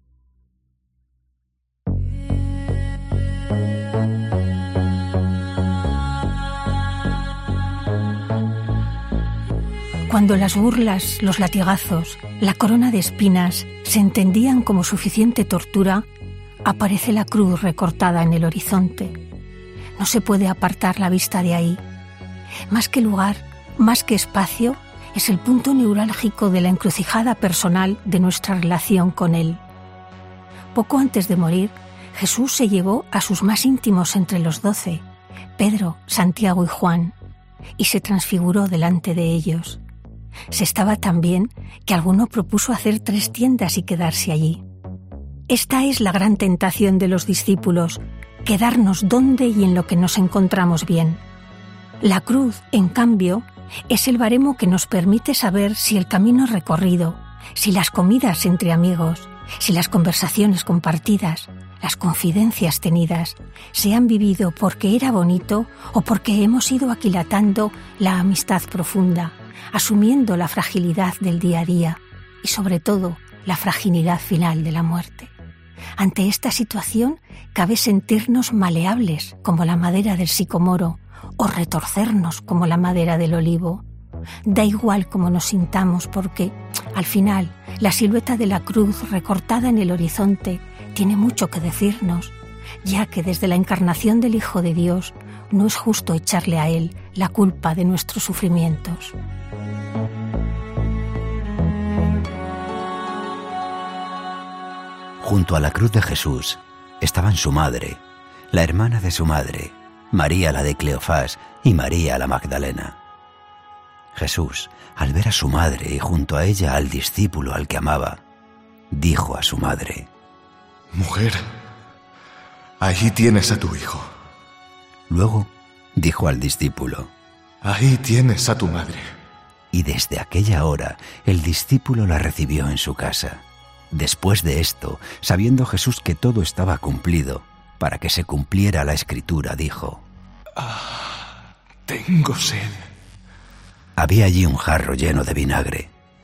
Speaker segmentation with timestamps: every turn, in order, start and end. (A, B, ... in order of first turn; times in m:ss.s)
0:10.0-0:16.1 A
0:16.6-0:19.1 A
0:20.0-0:21.8 A
0:22.7-0:29.6 A
0:30.7-0:35.0 A
0:35.6-0:37.2 A
0:37.8-0:39.8 A
0:40.5-0:44.6 A
0:45.5-0:51.2 A
0:52.0-1:15.3 A
1:16.0-1:23.8 A
1:24.4-1:39.2 A
1:45.2-1:53.0 B
1:54.1-1:58.2 B
1:58.9-2:00.1 B
2:00.9-2:01.4 C
2:02.8-2:04.0 C
2:05.1-2:07.1 B
2:07.6-2:09.0 C
2:09.7-2:20.0 B
2:21.9-2:22.8 C
2:24.0-2:25.9 B